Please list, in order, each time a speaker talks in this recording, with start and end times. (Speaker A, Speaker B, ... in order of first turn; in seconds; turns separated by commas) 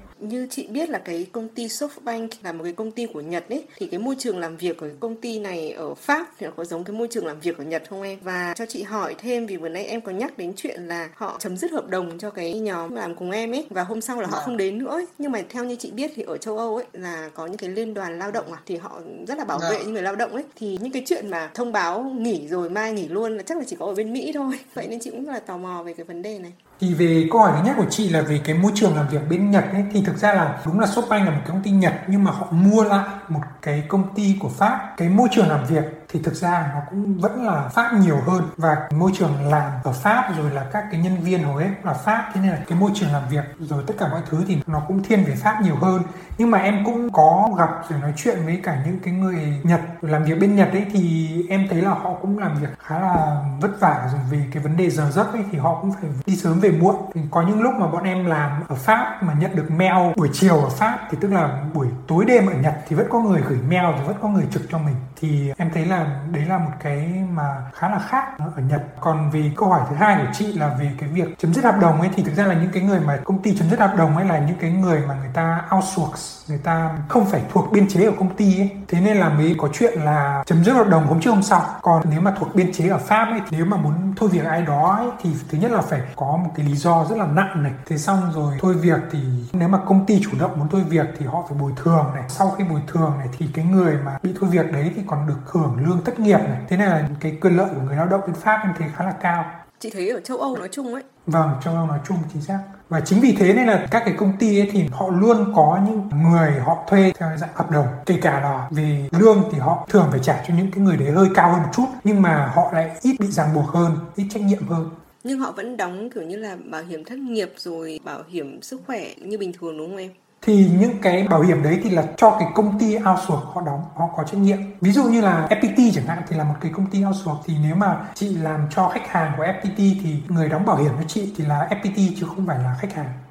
Speaker A: 0.2-26.6, Speaker B: 26.8-99.6, Speaker A: 99.8-101.1, Speaker B: 101.3-115.0, Speaker A: 115.2-120.2, Speaker B: 120.4-133.2